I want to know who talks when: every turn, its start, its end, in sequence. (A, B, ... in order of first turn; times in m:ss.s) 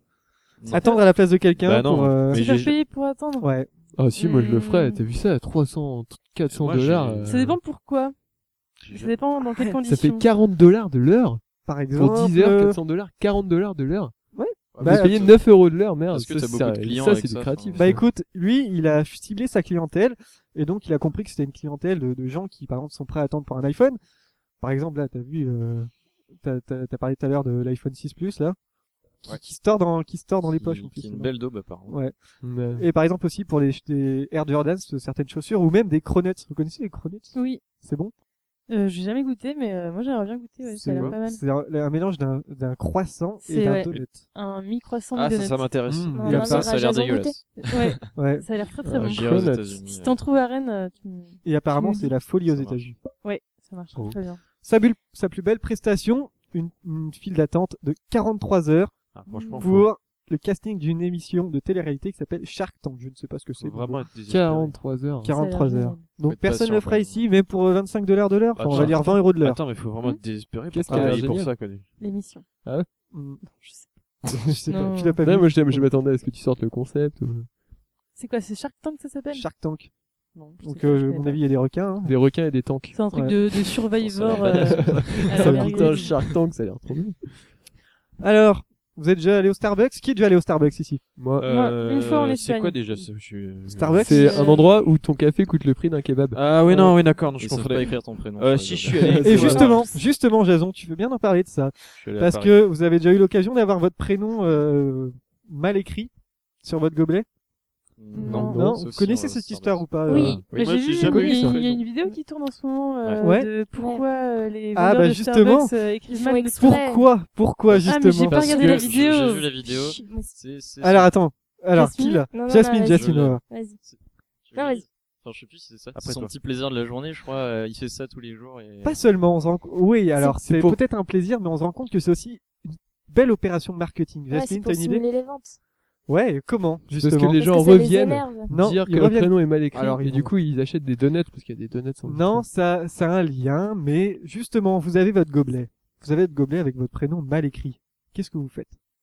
0:00.6-0:00.8 A
0:00.7-0:02.4 B
0:01.6-0:02.8 C
0:02.3-0:03.5 D
0:03.4-0:03.7 B
0:04.0-0:07.6 E
0:04.2-0:05.0 D
0:06.5-0:07.5 C
0:07.2-0:08.1 D
0:08.9-0:10.3 D
0:09.8-0:11.4 E
0:11.6-0:12.8 B
0:11.9-0:14.1 E
0:14.3-0:15.3 B
0:14.8-0:15.4 A
0:14.8-0:18.0 E
0:16.1-0:17.9 A
0:17.8-0:24.0 B
0:24.6-0:28.6 B
0:29.2-0:31.3 B
0:30.5-0:32.0 A
0:31.9-0:32.1 B
0:32.4-0:32.8 E
0:32.8-0:38.1 B
0:37.3-0:37.6 D
0:38.7-0:41.4 D
0:40.6-0:44.2 B
0:40.9-0:41.2 C
0:43.4-0:46.6 D
0:45.1-0:46.8 C
0:45.9-0:46.7 B
0:46.1-0:47.4 F
0:46.4-0:47.9 A
0:47.6-0:52.1 D
0:48.1-0:48.4 B
0:48.8-0:49.8 E
0:49.0-0:50.2 A
0:51.4-0:53.0 B
0:52.4-0:52.9 A
0:53.2-0:54.4 D
0:54.6-0:58.9 B
0:59.1-0:59.9 C
0:59.3-0:59.7 D
0:59.6-1:04.0 B
1:03.6-1:04.8 C
1:04.2-1:05.3 E
1:05.2-1:09.6 B
1:05.3-1:06.1 D
1:06.2-1:07.2 A
1:08.6-1:11.9 C
1:10.7-1:11.5 E
1:10.9-1:11.3 B
1:12.0-1:12.4 D
1:13.1-1:13.4 B
1:13.5-1:13.9 D
1:14.3-1:15.9 B
1:14.7-1:15.2 D
1:15.2-1:17.5 E
1:18.1-1:19.5 D
1:19.3-1:19.9 B
1:20.3-1:21.4 D
1:20.6-1:22.2 B
1:22.0-1:22.9 E
1:22.9-1:26.2 D
1:23.1-1:23.4 B
1:24.0-1:25.4 A
1:24.4-1:27.5 E
1:25.3-1:26.0 B
1:28.2-1:31.0 B
1:31.2-1:31.5 E
1:31.4-1:34.5 C
1:31.4-1:33.0 D
1:33.6-1:34.4 B
1:34.0-1:37.0 E
1:34.1-1:34.6 D
1:36.3-1:39.9 C
1:37.4-1:39.8 A
1:38.9-1:39.6 E
1:39.2-1:46.1 B
1:42.0-1:42.5 C
1:46.6-1:47.3 B
1:48.0-1:50.1 A
1:48.1-1:48.6 D
1:48.3-1:48.8 E
1:48.5-1:50.4 B
1:50.1-1:50.4 F
1:50.1-1:51.8 C
1:50.5-1:56.8 D
1:51.0-1:51.6 B
1:53.2-1:53.5 B
1:53.7-1:54.0 F
1:54.7-1:55.7 B
1:56.1-1:57.0 F
1:56.6-1:58.8 B
1:57.8-1:59.5 D
1:58.3-2:01.1 A
1:59.6-2:00.3 F
2:00.8-2:03.4 B
2:01.7-2:02.2 D
2:02.3-2:03.8 F
2:02.9-2:09.0 A
2:04.5-2:04.8 F
2:05.9-2:06.3 C
2:08.8-2:15.0 B
2:10.4-2:10.8 E
2:14.3-2:15.6 F
2:16.1-2:17.4 B
2:16.9-2:22.4 E
2:17.4-2:18.5 F
2:18.5-2:20.3 B
2:22.0-2:28.7 B